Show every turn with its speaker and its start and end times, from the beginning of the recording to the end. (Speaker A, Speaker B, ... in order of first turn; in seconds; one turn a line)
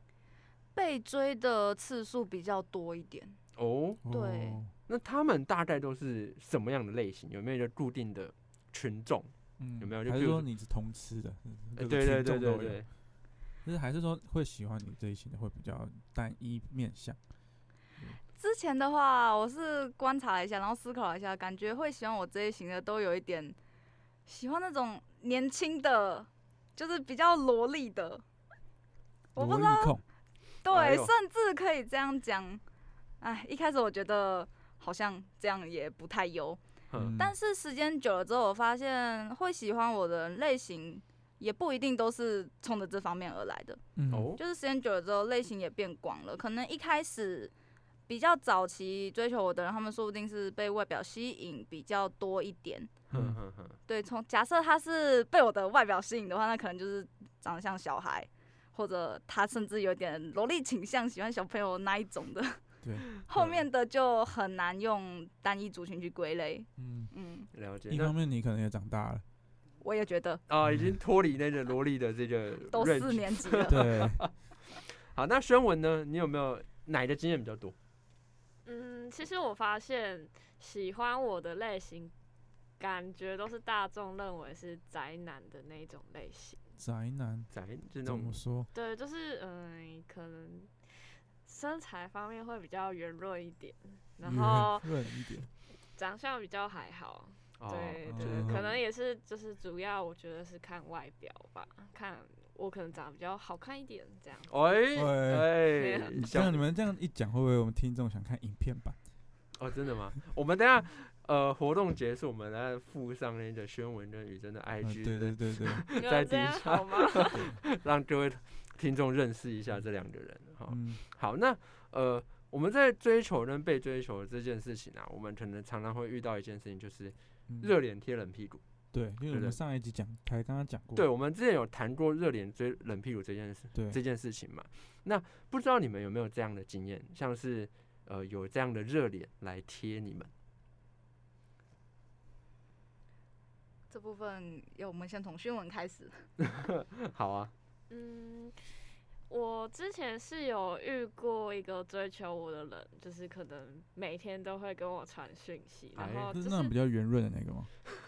Speaker A: 0.7-3.4
Speaker B: 3.5-4.0
Speaker C: 4.0-4.7
Speaker A: 4.0-4.6
Speaker B: 4.8-10.5
Speaker C: 9.6-12.8
Speaker B: 11.8-12.9
Speaker C: 13.6-17.2
Speaker A: 18.3-23.6
Speaker A: 24.2-28.2
Speaker A: 29.3-30.0
Speaker C: 29.4-30.0
Speaker A: 30.6-32.6
Speaker B: 30.7-31.1
Speaker A: 33.2-36.6
Speaker B: 36.9-37.2
Speaker C: 37.0-37.3
Speaker A: 37.1-43.8
Speaker C: 43.9-44.3
Speaker B: 44.1-44.4
Speaker A: 44.4-47.5
Speaker A: 48.1-52.9
Speaker B: 53.1-53.8
Speaker C: 53.1-53.4
Speaker A: 53.9-62.6
Speaker C: 62.8-63.1
Speaker A: 63.1-67.5
Speaker B: 63.3-63.6
Speaker C: 66.8-67.1
Speaker B: 67.5-68.2
Speaker C: 67.9-69.2
Speaker A: 69.8-70.4
Speaker B: 70.5-77.7
Speaker C: 70.6-70.9
Speaker A: 72.7-73.8
Speaker C: 73.7-74.2
Speaker D: 78.6-82.1
Speaker D: 82.8-86.6
Speaker C: 86.8-87.5
Speaker B: 87.5-88.4
Speaker C: 88.0-88.7
Speaker D: 88.7-95.0
Speaker C: 94.2-95.5
Speaker D: 95.9-104.5
Speaker B: 97.6-98.8
Speaker C: 98.1-98.7
Speaker B: 104.5-106.6
Speaker C: 104.9-109.0
Speaker D: 105.7-106.2
Speaker B: 109.5-128.6
Speaker C: 114.8-115.8
Speaker D: 115.9-117.5
Speaker C: 120.7-121.0
Speaker C: 128.9-131.1
Speaker B: 129.3-129.6
Speaker B: 130.9-140.3
Speaker C: 133.7-134.0
Speaker A: 143.9-146.2
Speaker B: 146.4-147.5
Speaker D: 147.9-148.7
Speaker D: 149.3-156.7
Speaker B: 155.9-156.3
Speaker C: 156.3-157.7